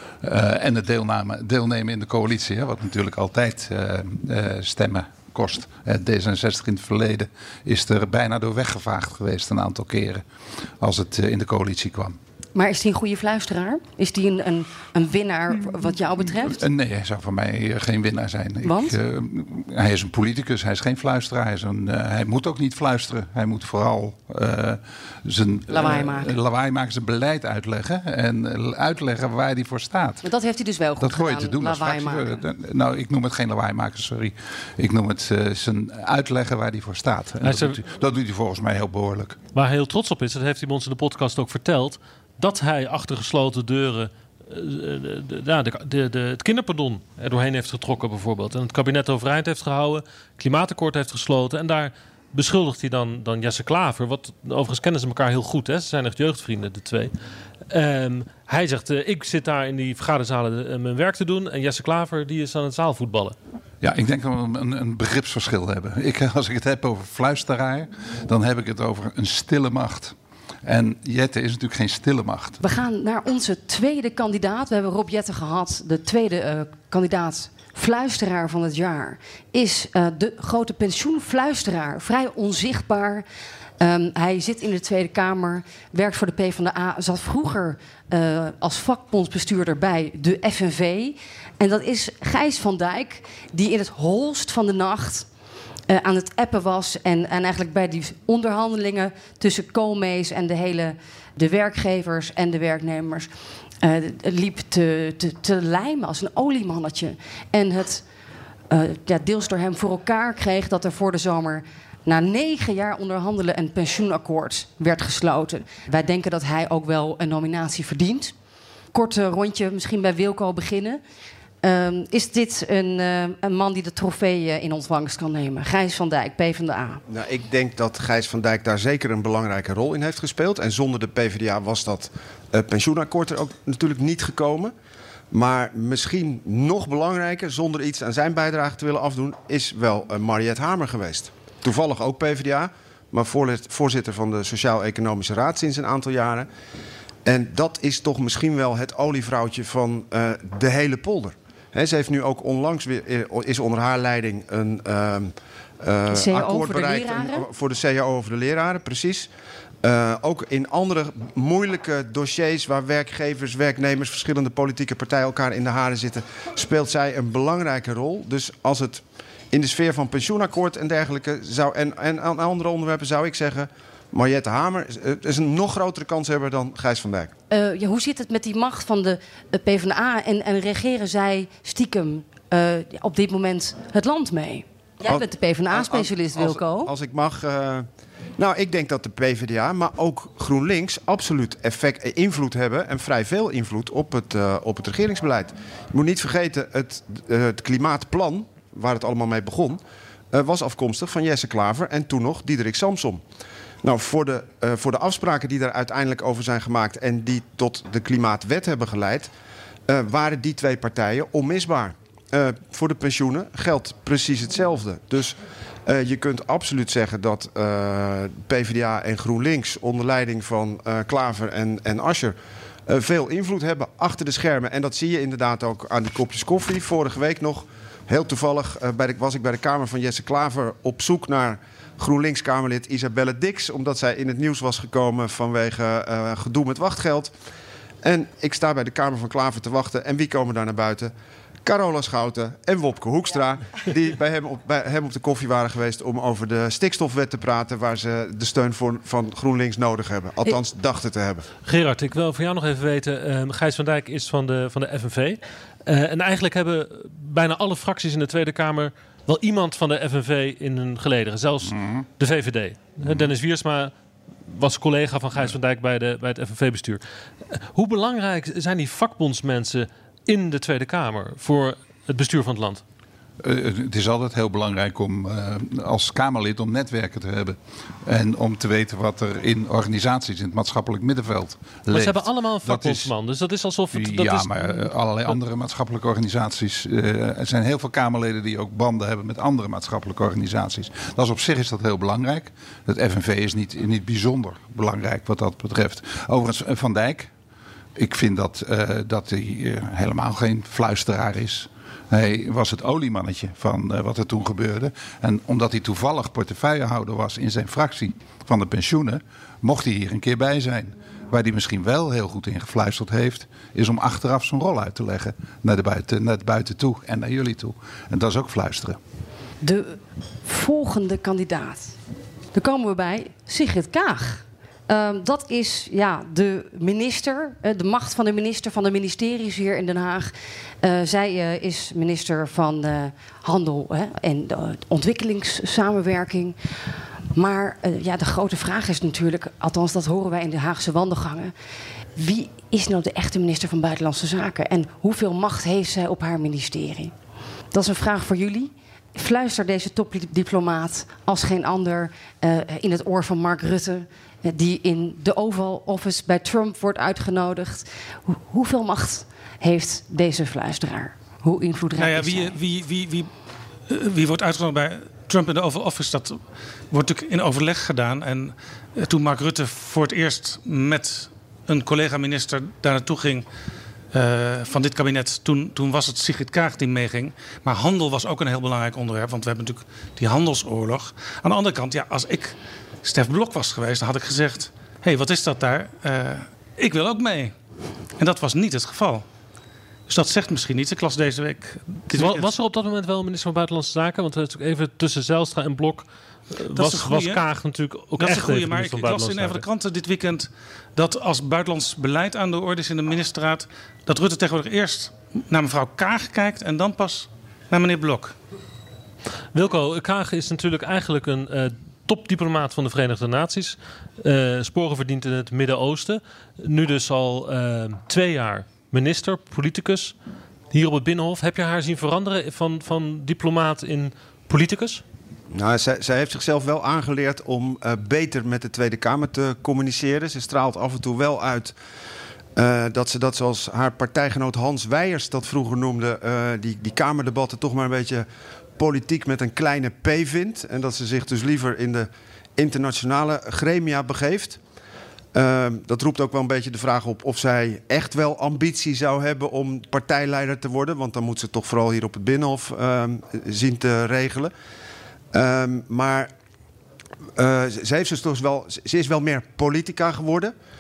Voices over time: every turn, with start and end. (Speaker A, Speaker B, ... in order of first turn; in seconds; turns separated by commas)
Speaker A: 0.2-10.2, Speaker A: 10.8-12.2, Speaker B: 12.6-16.6, Speaker A: 16.4-30.2, Speaker B: 18.6-18.9, Speaker B: 25.7-26.3, Speaker B: 30.2-32.4, Speaker A: 31.0-39.4, Speaker C: 37.4-37.8, Speaker C: 39.5-57.1, Speaker C: 57.7-63.4, Speaker A: 63.8-72.6, Speaker B: 72.6-83.2, Speaker B: 83.8-95.3, Speaker B: 95.9-103.3, Speaker B: 103.8-108.0, Speaker B: 108.7-118.3, Speaker B: 118.9-121.0, Speaker B: 121.6-127.0, Speaker D: 127.1-134.7, Speaker D: 135.3-146.5, Speaker D: 147.2-159.3, Speaker B: 156.1-157.5, Speaker D: 159.8-177.3, Speaker B: 177.5-186.9, Speaker D: 185.1-187.9, Speaker D: 188.4-199.8, Speaker D: 200.3-203.2, Speaker D: 203.8-209.3, Speaker D: 209.9-222.3, Speaker D: 222.9-237.3, Speaker D: 238.0-241.1, Speaker D: 241.7-251.5, Speaker C: 251.7-263.9, Speaker A: 261.7-262.0, Speaker A: 263.0-263.3, Speaker C: 264.5-272.8, Speaker A: 273.4-283.1, Speaker C: 281.9-285.4, Speaker A: 283.9-297.3, Speaker A: 298.0-319.0, Speaker B: 319.6-322.0, Speaker B: 322.5-336.6, Speaker B: 337.3-341.5, Speaker B: 342.1-347.1, Speaker B: 347.7-362.6, Speaker E: 361.9-363.3, Speaker E: 363.9-373.5, Speaker E: 374.1-387.5, Speaker E: 388.2-389.2, Speaker E: 390.1-392.5, Speaker C: 392.1-399.6, Speaker E: 396.7-397.4, Speaker E: 398.2-408.4, Speaker C: 409.5-420.1, Speaker C: 420.7-425.0, Speaker D: 425.5-431.8, Speaker D: 432.6-438.3, Speaker D: 438.8-444.6, Speaker D: 445.3-454.5, Speaker D: 455.3-456.3, Speaker D: 457.4-460.5